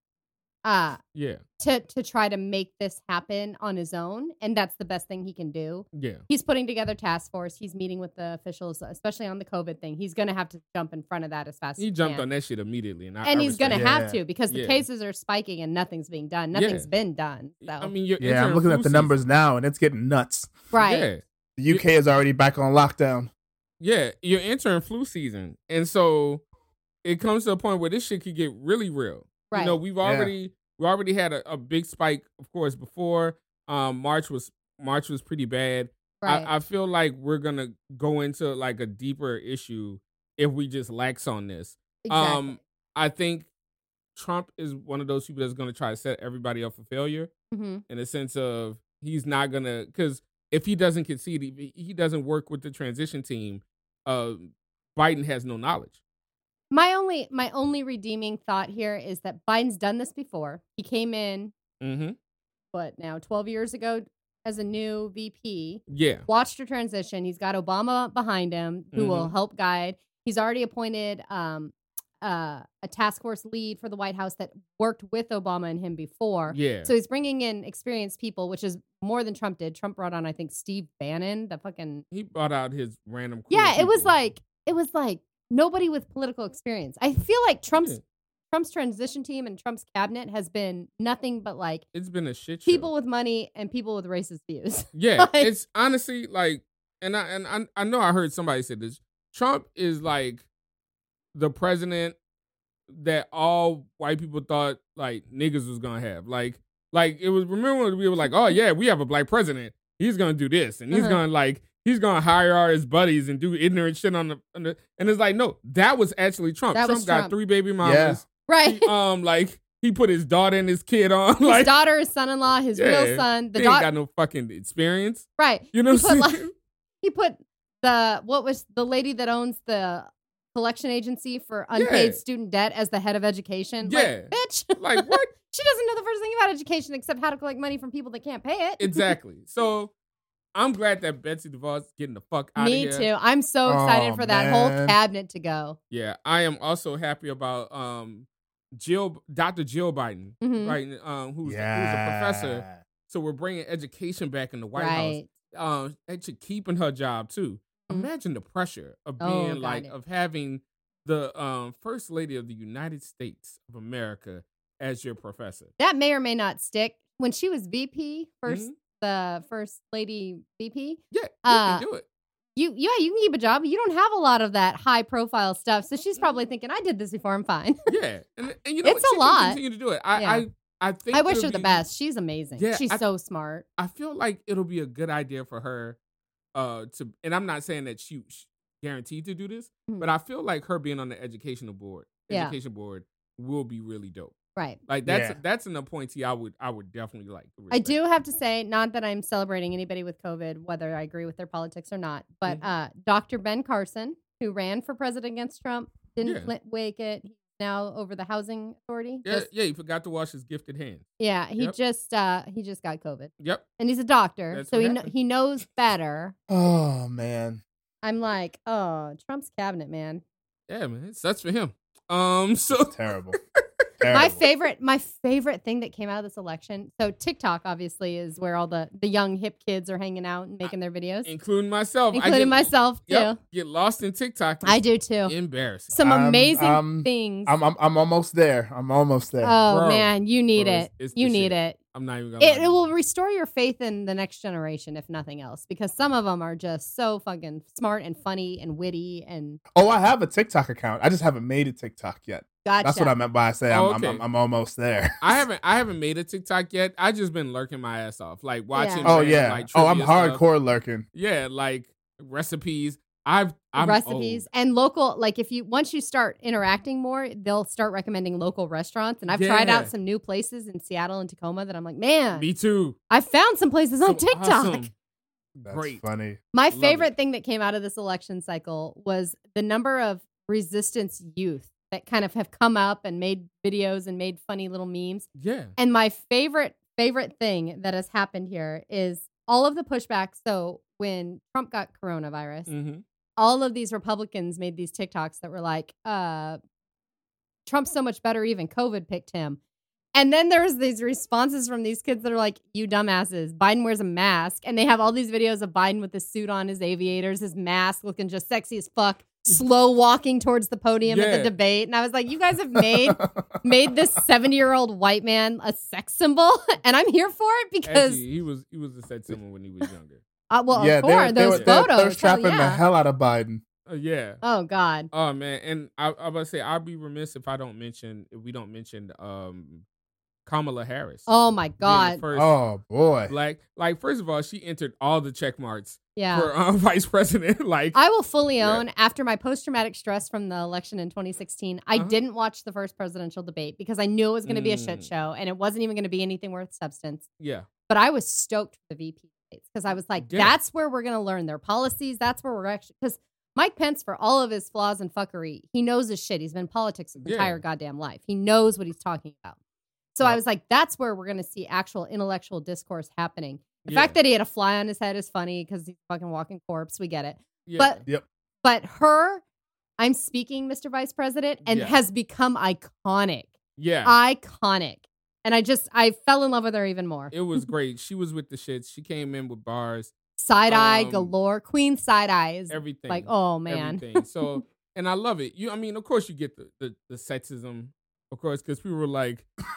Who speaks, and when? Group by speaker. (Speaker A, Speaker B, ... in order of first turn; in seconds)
Speaker A: 0.6-1.0, 1.6-12.2, 13.2-17.9, 20.7-21.1, 29.5-29.8, 36.2-36.5, 42.0-42.5, 47.5-47.8, 56.7-61.5, 62.7-82.0, 83.5-88.0, 88.5-91.8, 92.7-95.5, 110.9-111.2, 116.7-117.3, 118.5-118.9, 121.4-123.9, 125.4-126.5, 127.0-139.1, 142.6-145.8, 150.4-150.8, 154.8-155.3, 159.2-159.9, 165.8-171.8, 172.6-177.8, 178.8-179.6, 180.1-180.4, 181.1-183.6, 192.3-192.5, 197.7-209.5, 211.2-216.3, 218.0-220.2, 224.1-231.3, 232.1-233.4, 234.6-235.3, 235.9-237.5, 239.4-241.8, 242.4-249.6, 252.6-253.1, 258.7-259.2, 263.8-272.4, 273.1-274.9, 276.5-292.7, 293.4-296.6, 297.7-299.6, 300.1-318.2, 320.5-322.8, 324.4-325.1, 331.3-332.2, 336.1-336.5, 337.9-347.2, 347.9-359.6, 360.1-368.0, 368.6-369.4, 370.0-373.5, 374.0-377.6, 380.4-384.6
Speaker B: 1.1-1.4, 5.9-6.2, 11.8-13.8, 14.5-14.8, 16.5-16.9, 17.7-19.2, 20.8-21.9, 23.8-26.4, 27.0-43.5, 44.1-47.3, 47.9-56.0, 61.8-62.1, 65.9-66.2, 68.9-69.3, 76.5-76.9, 82.1-84.1, 91.9-92.9, 94.9-100.5, 101.3-102.2, 102.9-121.7, 122.8-126.5, 131.7-132.2, 133.8-135.3, 138.8-139.9, 140.5-143.1, 145.9-165.7, 168.5-168.7, 171.1-172.0, 177.9-181.8, 182.6-183.0, 183.8-186.0, 186.5-194.3, 194.9-197.9, 206.2-206.5, 209.2-211.1, 213.4-213.7, 214.5-215.1, 220.7-223.0, 231.2-235.9, 239.7-242.9, 253.7-254.2, 255.2-260.4, 261.1-264.4, 269.3-269.9, 272.3-273.0, 274.0-274.9, 275.5-276.0, 276.7-277.1, 285.4-285.7, 292.7-293.0, 311.1-311.5, 317.9-320.2, 321.5-321.8, 323.9-324.4, 325.1-329.8, 330.4-331.3, 331.8-332.6, 333.3-338.0, 344.4-345.1, 347.4-347.7, 350.2-350.5, 357.2-357.6, 363.8-364.1, 367.6-368.0, 371.6-372.0, 373.8-374.1, 377.3-380.1, 380.7-381.3, 382.7-389.5
Speaker C: 13.7-14.2, 18.2-20.5, 21.6-23.3, 30.0-30.3, 117.8-118.2, 143.7-144.9, 151.4-152.8, 195.0-195.4, 216.5-217.6, 222.7-223.4, 224.0-224.4, 236.0-239.6, 249.7-255.4, 259.0-261.1, 275.6-276.4, 312.8-313.4, 320.7-323.6, 332.3-333.3